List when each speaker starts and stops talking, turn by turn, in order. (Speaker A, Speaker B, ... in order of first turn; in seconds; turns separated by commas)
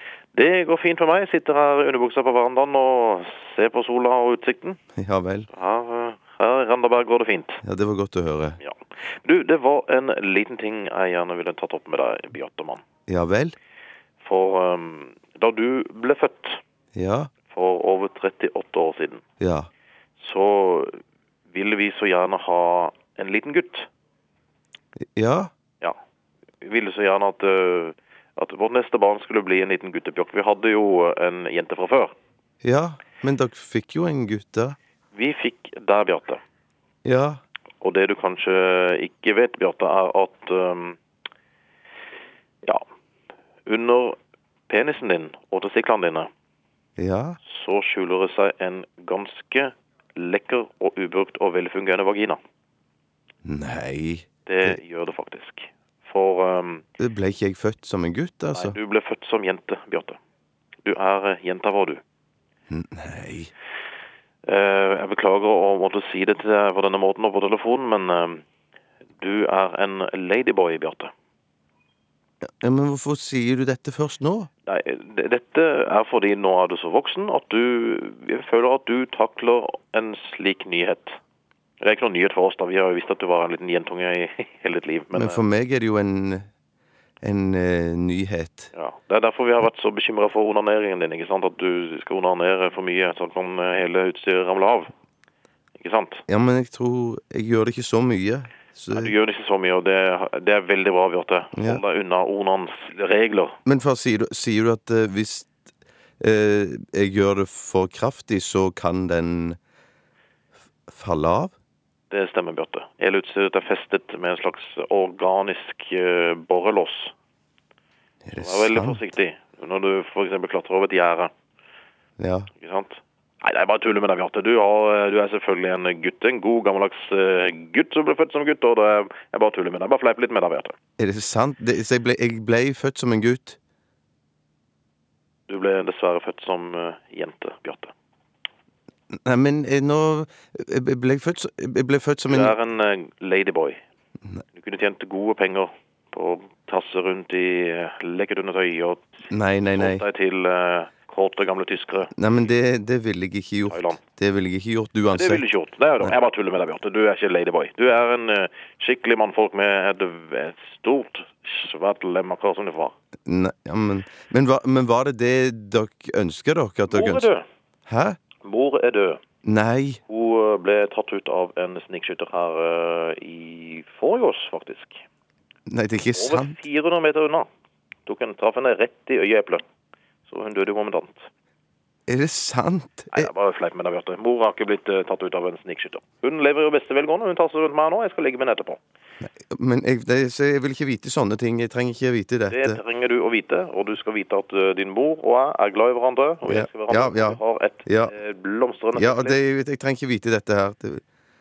Speaker A: 0.3-4.8, Speaker B: 5.0-5.5, Speaker A: 5.5-7.6, Speaker B: 7.6-8.6, Speaker A: 8.6-12.8, Speaker B: 13.1-13.6, Speaker A: 14.2-16.6, Speaker B: 16.9-17.3, Speaker A: 17.5-19.2, Speaker B: 19.4-19.7, Speaker A: 20.2-21.0, Speaker A: 21.5-23.9, Speaker B: 25.1-25.5, Speaker A: 26.6-32.1, Speaker B: 32.6-34.8, Speaker A: 35.1-36.4, Speaker B: 37.0-37.4, Speaker A: 37.8-41.0, Speaker A: 43.6-44.1, Speaker A: 44.7-46.3, Speaker B: 47.0-47.4, Speaker A: 47.4-52.4, Speaker B: 53.4-54.8, Speaker A: 54.5-56.8, Speaker B: 57.0-58.8, Speaker A: 58.5-60.2, Speaker A: 60.8-62.0, Speaker B: 62.7-63.5, Speaker A: 64.5-68.4, Speaker A: 69.2-71.1, Speaker B: 72.6-74.5, Speaker A: 74.7-81.2, Speaker A: 81.8-85.4, Speaker B: 85.1-86.4, Speaker B: 87.2-88.7, Speaker A: 88.7-94.9, Speaker A: 95.8-96.2, Speaker B: 96.3-99.1, Speaker A: 98.9-103.5, Speaker B: 101.5-101.8, Speaker B: 103.7-105.5, Speaker B: 106.2-109.6, Speaker B: 110.9-111.5, Speaker A: 112.1-117.1, Speaker B: 118.2-119.0, Speaker A: 118.3-121.3, Speaker B: 122.2-122.5, Speaker A: 122.5-130.7, Speaker B: 131.0-133.6, Speaker A: 135.5-137.9, Speaker B: 139.1-142.5, Speaker A: 142.3-143.8, Speaker A: 144.5-152.1, Speaker B: 149.3-150.0, Speaker B: 152.1-155.4, Speaker A: 153.7-154.0, Speaker A: 155.1-162.9, Speaker B: 163.2-167.2, Speaker A: 166.9-167.4, Speaker B: 167.9-168.2, Speaker A: 168.4-169.2, Speaker B: 169.4-170.0, Speaker A: 170.1-175.0, Speaker B: 175.7-176.6, Speaker A: 176.1-177.5, Speaker A: 178.1-179.6, Speaker A: 180.3-181.3, Speaker B: 182.1-183.3, Speaker A: 183.1-188.8, Speaker B: 189.2-192.8, Speaker A: 192.5-199.4, Speaker B: 196.4-198.1, Speaker B: 198.9-201.0